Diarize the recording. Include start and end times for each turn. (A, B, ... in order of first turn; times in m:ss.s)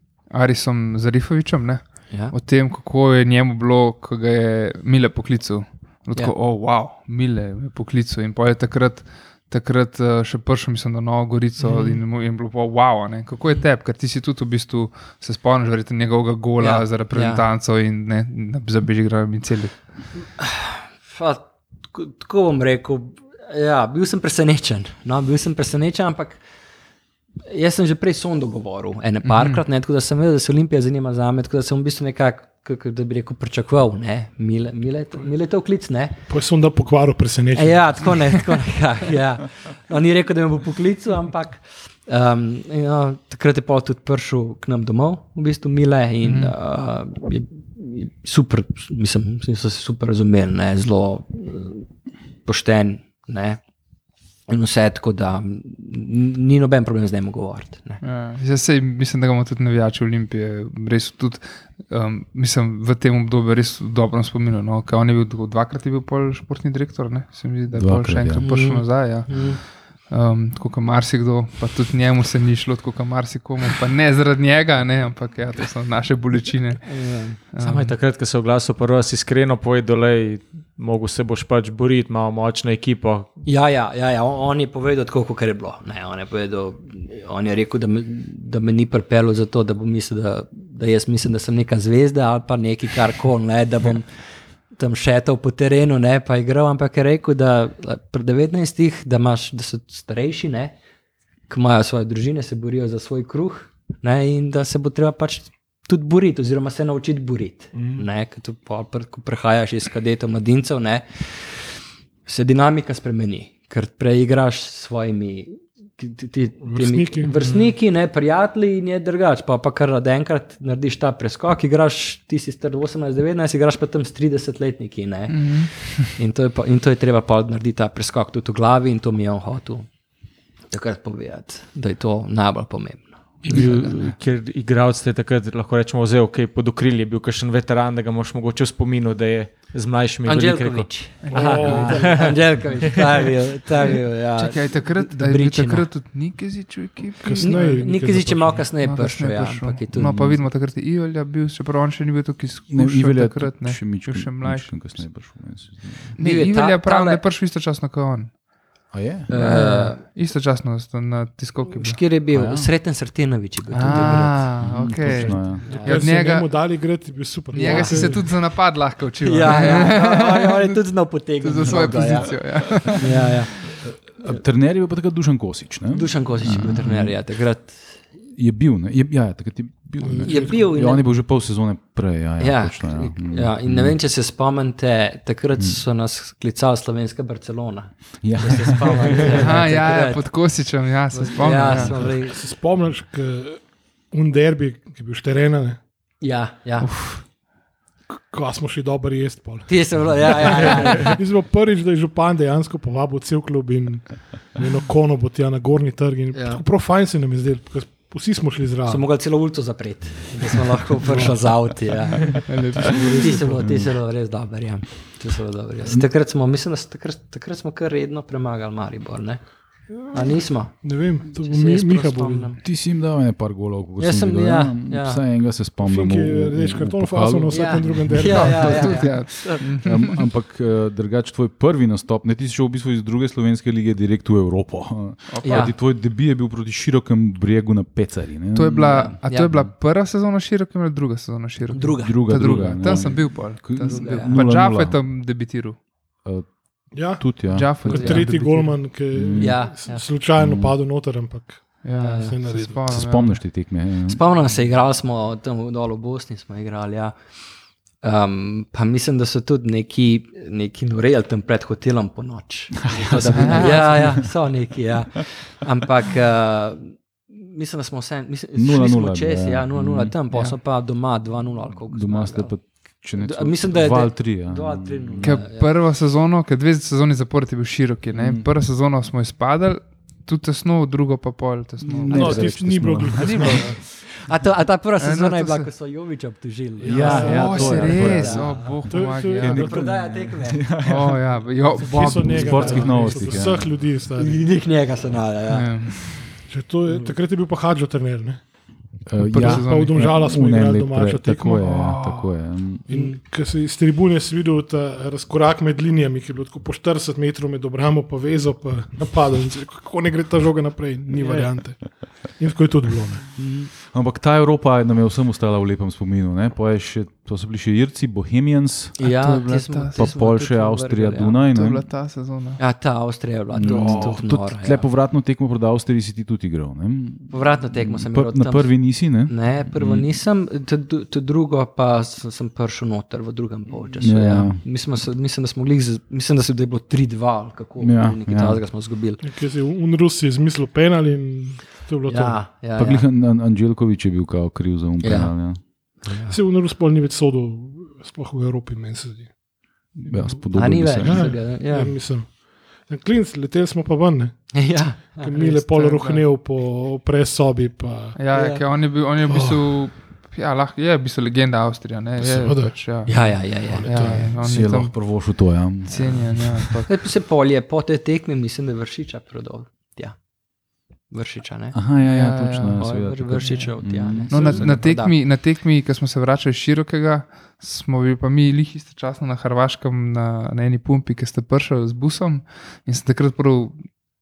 0:00.3-0:19.8 A
0:11.6-0:12.0 B
0:16.6-0:17.4 B
0:20.4-0:26.4 B
0:27.4-0:36.2 B
0:29.2-0:29.6 A
0:36.3-0:38.2 C
0:37.5-0:51.8 B
0:46.2-0:46.5 A
0:52.4-0:53.6 B
0:54.5-0:58.0 B
0:58.0-1:16.9 A
1:07.7-1:08.4 D
1:08.5-1:09.6 B
1:16.8-1:17.5 B
1:17.5-1:17.9 A
1:17.6-1:23.3 E
1:23.4-1:34.1 B
1:34.7-1:40.8 B
1:41.5-1:51.6 B
1:47.7-1:48.0 C
1:52.2-2:09.9 B
1:56.6-1:57.4 C
2:05.3-2:06.1 A
2:10.7-2:13.9 B
2:13.4-2:23.0 E
2:20.2-2:25.9 B
2:21.2-2:22.0 A
2:21.3-2:22.2 C
2:24.4-2:27.7 A
2:27.2-2:28.7 C
2:27.4-2:30.2 B
2:28.8-2:35.1 A
2:30.0-2:30.4 D
2:32.7-2:36.1 D
2:36.2-2:38.3 A
2:36.2-2:37.2 B
2:38.9-2:39.3 D
2:39.3-2:40.0 B
2:39.3-2:42.0 A
2:41.7-2:44.5 B
2:42.3-2:42.7 D
2:43.7-2:46.5 A
2:43.9-2:45.7 D
2:45.2-2:46.0 B
2:45.7-2:48.2 C
2:47.5-2:48.3 B
2:47.5-2:53.3 A
2:49.2-2:53.6 B
2:53.8-2:57.2 D
2:55.9-2:58.0 B
2:58.3-3:04.0 D
3:00.0-3:00.6 C
3:00.2-3:01.0 B
3:02.4-3:10.3 B
3:08.2-3:09.5 D
3:09.3-3:12.1 A
3:11.1-3:12.4 B
3:11.7-3:15.8 C
3:16.2-3:16.9 B
3:16.8-3:17.2 A
3:18.1-3:29.0 C
3:19.7-3:21.2 B
3:26.3-3:26.6 B
3:28.8-3:39.4 B
3:31.0-3:31.3 C
3:32.2-3:33.7 A
3:33.6-3:33.9 D
3:40.1-3:42.6 B
3:40.8-3:42.5 C
3:42.6-3:48.6 D
3:44.0-3:45.2 B
3:45.8-3:49.1 C
3:47.5-3:49.6 B
3:48.2-3:50.3 A
3:49.6-3:59.2 D
3:55.3-3:55.7 A
3:55.4-3:55.7 B
3:58.5-4:05.8 A
3:58.9-3:59.6 B
4:01.7-4:02.2 B
4:02.0-4:05.0 D
4:03.8-4:04.4 B
4:06.2-4:08.2 D
4:06.9-4:07.3 C
4:07.5-4:08.8 A
4:07.8-4:12.8 C
4:07.9-4:08.2 B
4:09.1-4:09.6 D
4:09.4-4:10.0 B
4:10.4-4:10.8 D
4:11.8-4:13.4 A
4:12.0-4:12.4 B
4:12.9-4:14.2 D
4:14.1-4:17.1 B
4:18.0-4:35.7 B
4:22.8-4:24.3 D
4:23.2-4:24.2 A
4:28.6-4:30.1 D
4:30.3-4:30.6 A
4:31.8-4:35.4 D
4:35.2-4:43.8 A
4:38.1-4:38.5 D
4:41.8-4:43.8 D
4:42.0-4:43.8 C
4:44.0-4:48.7 B
4:45.0-4:45.7 A
4:46.8-4:48.3 C
4:46.9-4:48.8 D
4:46.9-4:49.6 A
4:48.9-4:49.9 C
4:49.4-4:50.6 B
4:49.4-4:53.8 D
4:50.8-4:53.5 A
4:51.8-4:54.4 C
4:54.1-4:55.7 B
4:55.5-4:56.1 A
4:56.5-4:58.4 C
4:59.1-5:02.8 D
4:59.3-5:01.6 C
4:59.3-5:00.2 A
5:01.5-5:02.3 A
5:02.9-5:13.2 C
5:11.1-5:11.5 B
5:13.4-5:13.7 B
5:13.8-5:19.0 D
5:19.0-5:21.4 B
5:19.0-5:20.1 A
5:19.9-5:21.8 D
5:21.5-5:22.6 A
5:22.6-5:24.9 B
5:23.5-5:30.0 D
5:27.3-5:39.2 B
5:34.0-5:34.6 D
5:37.8-5:38.6 D
5:39.2-5:42.4 C
5:42.0-5:43.0 B
5:42.8-5:45.6 D
5:45.0-5:45.3 B
5:46.0-5:46.3 B
5:46.3-5:49.3 C
5:50.0-5:51.3 D
5:50.5-5:51.9 B
5:51.0-5:54.5 C
5:54.5-5:56.0 B
5:55.2-5:58.2 C
5:55.7-5:56.2 A
5:58.2-6:04.9 A
5:58.3-5:58.6 B
5:59.3-5:59.6 C
6:02.2-6:02.8 C
6:03.1-6:04.0 B
6:03.7-6:04.2 C
6:04.2-6:06.7 D
6:05.9-6:06.9 A
6:06.8-6:10.1 B
6:11.1-6:11.8 B
6:11.7-6:14.8 D
6:12.0-6:13.7 A
6:12.8-6:15.1 B
6:14.3-6:23.8 A